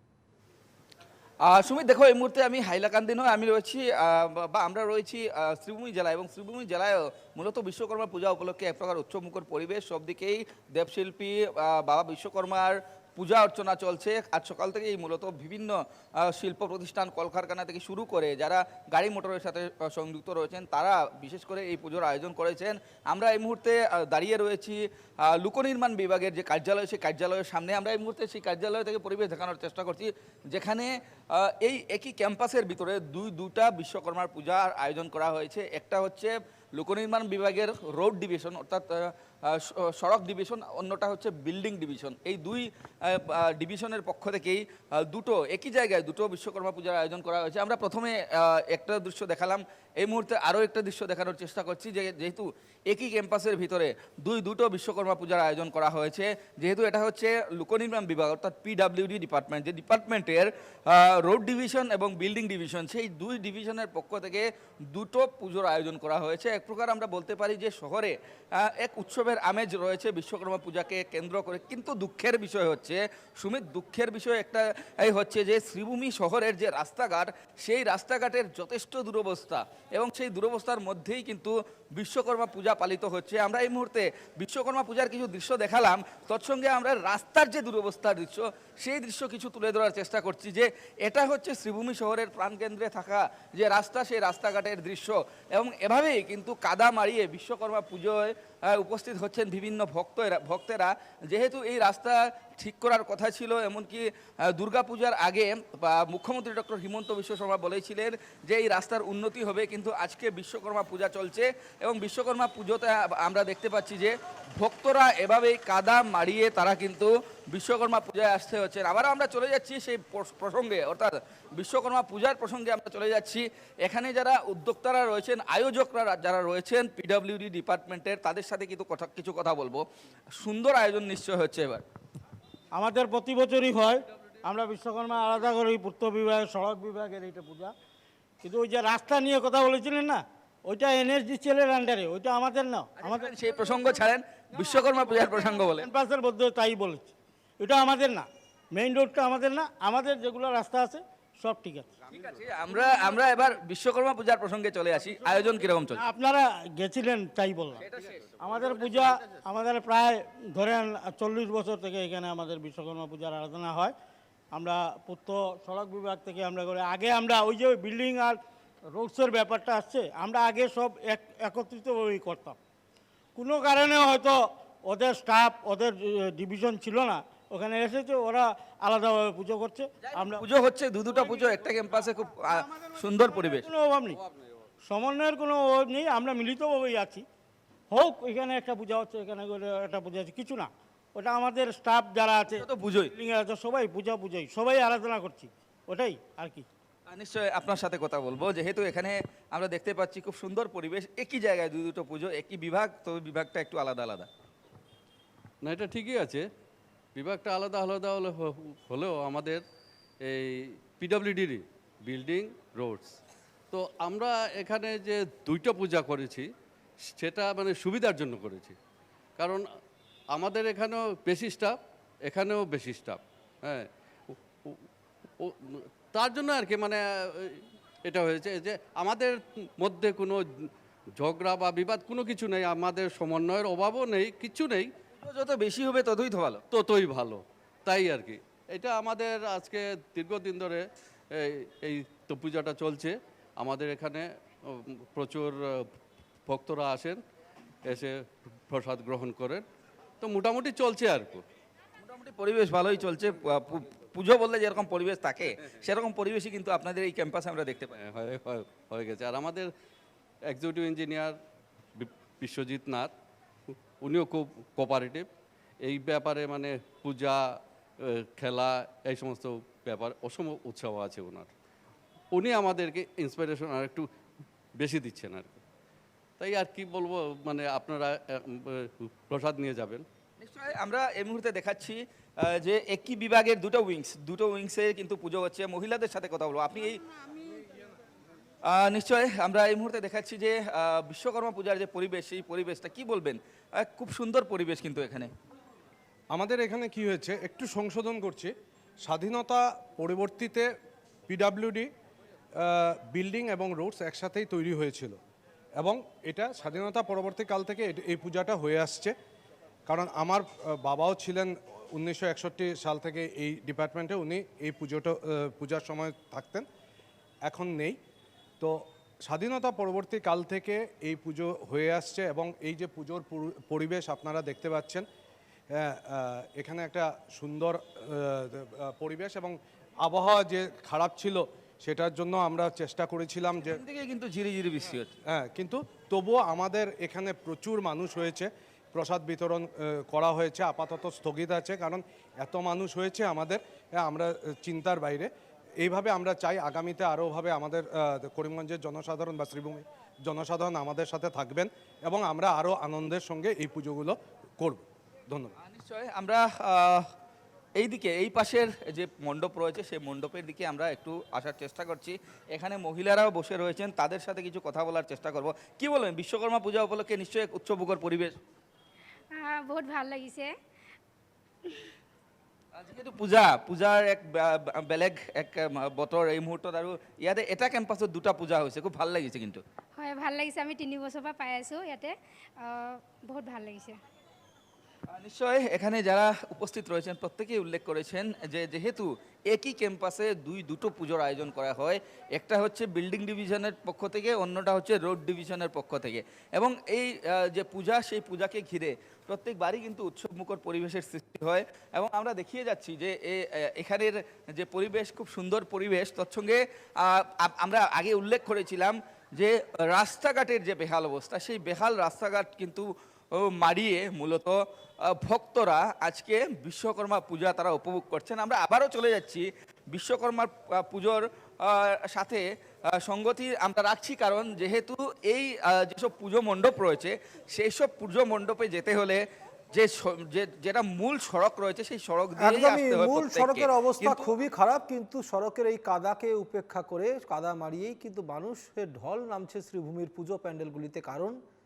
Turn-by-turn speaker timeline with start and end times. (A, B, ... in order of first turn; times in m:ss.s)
0:01.5-2:09.8 A
2:10.4-2:11.8 A
2:12.8-2:17.7 B
2:18.4-2:23.3 B
2:23.0-2:25.9 A
2:24.6-2:31.9 B
2:32.1-2:36.0 A
2:36.0-2:37.8 B
2:37.8-2:39.3 A
2:38.4-2:43.9 B
2:44.5-2:52.6 B
2:53.4-3:00.4 B
3:00.1-3:03.7 A
3:03.3-3:04.1 B
3:04.8-3:07.2 B
3:07.9-3:12.6 B
3:12.5-3:13.1 A
3:13.2-3:16.7 B
3:17.1-3:24.3 A
3:25.6-3:26.4 C
3:27.2-3:29.6 C
3:30.2-3:33.2 C
3:33.7-3:36.5 C
3:37.1-3:38.8 C
3:39.4-3:39.6 C
3:40.3-3:44.8 C
3:45.4-3:54.9 C
3:55.2-3:56.6 A
3:56.7-4:05.9 C
4:06.5-4:07.2 C
4:07.8-4:09.6 C
4:10.2-4:11.4 C
4:12.0-4:18.0 A
4:18.0-4:19.7 C
4:20.5-4:21.4 C
4:22.0-4:23.1 C
4:23.7-4:25.3 C
4:25.8-4:31.5 C
4:32.3-4:34.1 C
4:34.8-4:35.6 C
4:36.4-4:40.0 C
4:40.4-4:47.0 A
4:48.7-4:55.3 A
4:56.3-4:58.5 D
4:59.0-5:00.7 D
5:01.3-5:01.9 D
5:02.6-5:05.2 D
5:05.8-5:09.2 D
5:09.9-5:16.7 D
5:17.4-5:18.0 D
5:18.6-5:25.0 D
5:25.7-5:33.8 D
5:33.6-5:35.1 A
5:35.3-5:45.3 D
5:45.8-5:55.6 D
5:55.6-5:57.1 A
5:57.8-6:08.4 A
6:09.3-6:10.5 E
6:12.8-6:19.6 A
6:20.0-6:24.0 E
6:25.1-7:02.4 A
7:03.0-7:09.2 A
7:09.7-7:14.3 A
7:12.4-7:21.4 F